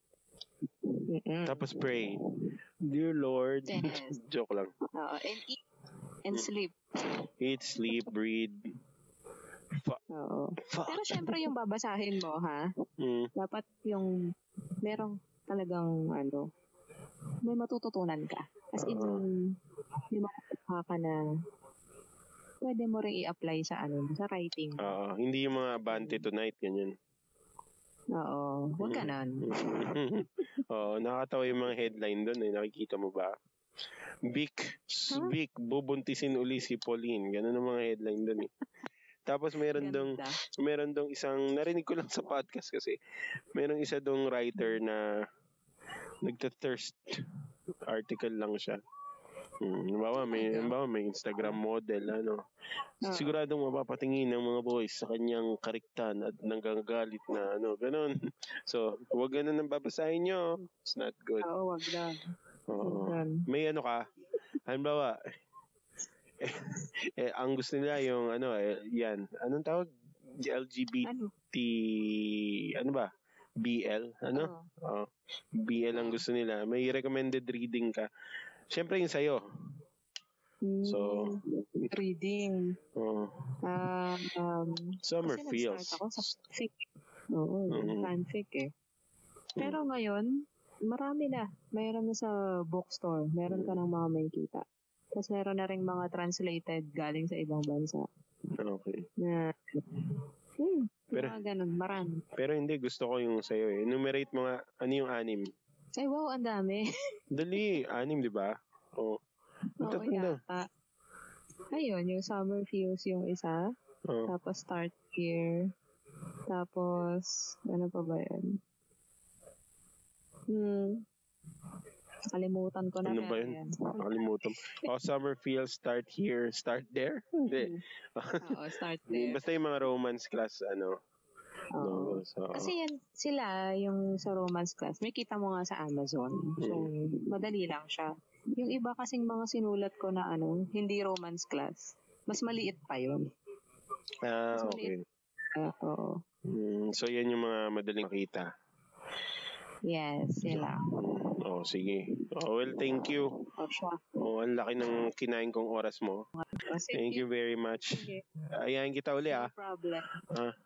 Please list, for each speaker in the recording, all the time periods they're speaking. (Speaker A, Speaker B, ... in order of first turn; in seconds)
Speaker A: 0.9-1.8, 3.7-4.2, 4.9-5.6, 6.2-6.8, 10.1-12.7, 13.3-14.1, 14.8-16.4, 17.4-19.4, 20.1-21.2, 22.6-24.9, 25.9-26.2, 28.2-29.8, 39.7-40.4, 50.3-50.7, 53.1-53.3, 61.4-62.2, 62.8-63.4, 71.0-71.3, 74.3-74.7, 75.9-76.2, 80.6-82.7, 83.6-88.7, 89.6-90.3, 90.9-98.1, 99.2-102.2, 106.0-106.8, 109.8-110.6, 111.7-113.6, 114.3-115.7, 116.5-118.6, 120.5-121.0, 122.3-124.1, 127.5-127.8, 128.4-129.4, 131.8-143.2, 144.5-144.9, 145.5-146.2, 149.9-150.8, 153.6-154.0, 156.4-157.2, 157.9-158.2, 159.3-160.1
Speaker B: 1.4-2.2, 2.8-4.7, 7.4-8.6, 10.6-11.4, 13.0-13.3, 18.8-19.2, 24.8-26.9, 28.8-33.3, 34.3-38.5, 39.3-43.0, 43.5-45.0, 46.2-47.3, 47.9-48.8, 49.6-52.4, 53.0-58.1, 58.6-61.4, 62.7-64.0, 64.7-65.2, 66.4-73.1, 73.6-78.1, 78.7-79.4, 80.8-81.3, 83.0-83.3, 85.0-86.3, 87.7-88.1, 93.5-93.8, 98.6-99.0, 102.3-105.5, 107.3-109.2, 109.8-110.4, 114.1-114.3, 123.0-130.9, 131.8-132.7, 136.6-136.9, 144.2-145.0, 146.5-148.4, 150.5-153.3, 154.2-156.2, 156.9-159.5, 160.2-160.5